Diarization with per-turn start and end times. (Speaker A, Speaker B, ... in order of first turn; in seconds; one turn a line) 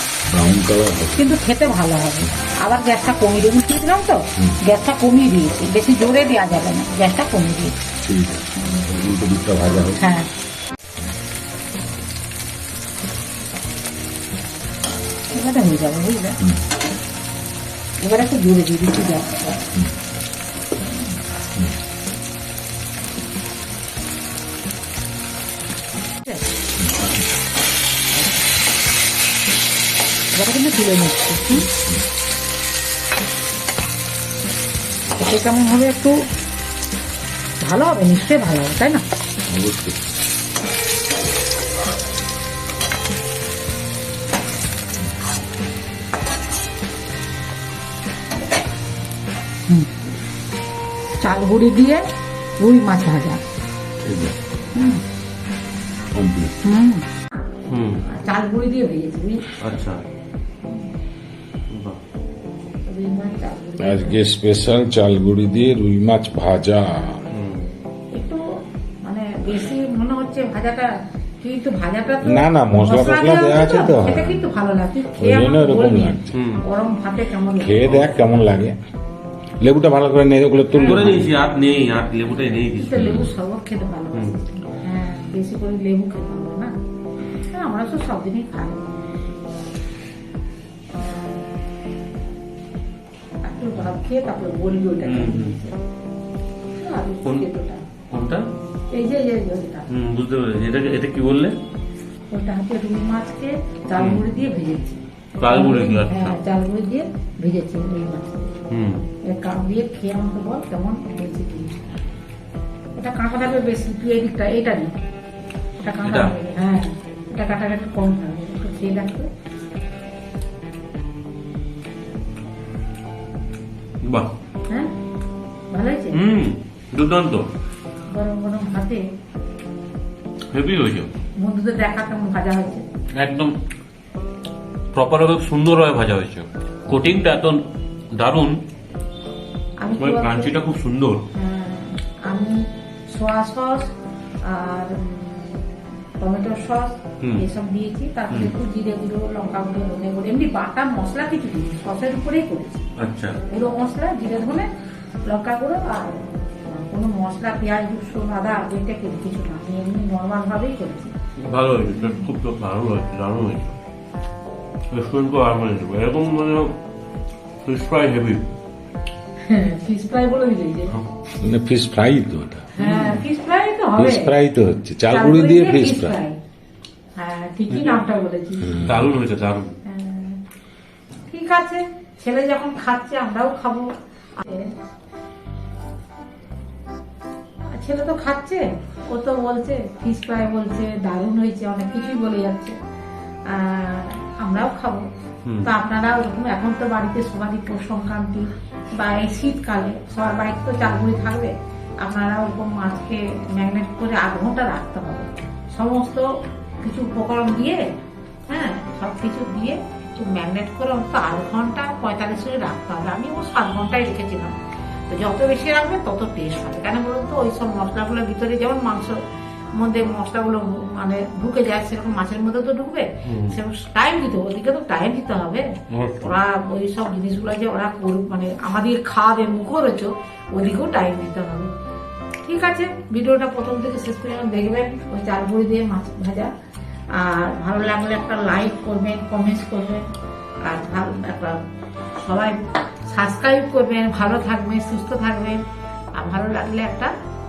Speaker A: 0.3-1.3
Speaker B: 1.2-7.7
Speaker A: 8.0-10.0
Speaker B: 8.6-8.8
Speaker B: 10.0-10.3
Speaker B: 15.3-16.4
Speaker B: 18.0-19.6
Speaker A: 26.8-27.2
Speaker B: 28.1-28.4
Speaker B: 30.3-31.7
Speaker A: 31.5-32.0
Speaker B: 35.1-36.2
Speaker B: 37.6-39.0
Speaker A: 39.5-40.0
Speaker B: 51.2-52.0
Speaker B: 52.6-53.4
Speaker A: 54.0-54.3
Speaker B: 54.7-55.0
Speaker A: 56.1-56.5
Speaker B: 56.6-57.1
Speaker C: 57.7-58.0
Speaker B: 58.0-59.4
Speaker C: 59.6-60.0
Speaker C: 61.7-62.0
Speaker B: 62.9-64.2
Speaker A: 63.8-67.2
Speaker C: 67.3-67.7
Speaker B: 68.1-68.4
Speaker B: 69.0-78.2
Speaker A: 72.2-74.4
Speaker A: 75.2-76.3
Speaker C: 76.3-76.6
Speaker A: 77.6-78.8
Speaker A: 79.6-81.3
Speaker B: 80.8-81.2
Speaker C: 80.8-83.2
Speaker B: 82.7-86.7
Speaker A: 82.9-83.3
Speaker B: 87.5-89.2
Speaker B: 91.0-91.5
Speaker B: 93.4-95.8
Speaker C: 95.0-95.5
Speaker B: 96.7-97.8
Speaker C: 98.1-98.5
Speaker B: 98.9-99.9
Speaker C: 99.9-101.6
Speaker B: 102.3-108.5
Speaker C: 104.0-104.2
Speaker C: 105.4-106.3
Speaker C: 108.7-109.0
Speaker B: 109.2-111.8
Speaker B: 113.0-114.9
Speaker B: 115.8-119.3
Speaker C: 116.0-116.3
Speaker C: 124.0-124.3
Speaker B: 125.7-126.2
Speaker C: 126.1-127.5
Speaker B: 128.1-129.0
Speaker C: 130.5-131.1
Speaker B: 131.3-132.8
Speaker C: 133.1-133.6
Speaker C: 134.9-138.6
Speaker B: 139.8-140.5
Speaker C: 140.0-141.2
Speaker B: 141.3-143.9
Speaker B: 144.4-145.7
Speaker B: 146.2-152.8
Speaker C: 153.0-153.4
Speaker B: 153.4-154.7
Speaker B: 155.2-161.1
Speaker C: 161.4-163.8
Speaker C: 164.9-166.8
Speaker C: 167.6-168.5
Speaker B: 169.5-170.9
Speaker A: 171.4-172.7
Speaker B: 172.7-174.3
Speaker C: 172.8-173.2
Speaker A: 174.0-176.2
Speaker B: 175.1-176.4
Speaker B: 177.2-178.8
Speaker C: 177.7-178.0
Speaker A: 178.6-179.1
Speaker C: 178.8-179.7
Speaker B: 179.8-180.4
Speaker B: 181.3-184.7
Speaker B: 187.7-192.8
Speaker B: 193.4-195.1
Speaker B: 195.6-206.3
Speaker B: 206.8-207.9
Speaker B: 208.5-214.5
Speaker B: 215.1-219.2
Speaker B: 219.7-225.7
Speaker C: 223.2-223.6
Speaker C: 225.9-226.3
Speaker B: 226.2-231.7
Speaker B: 232.4-236.5
Speaker B: 237.1-240.0
Speaker B: 240.6-241.6
Speaker B: 242.2-245.6
Speaker B: 246.2-247.1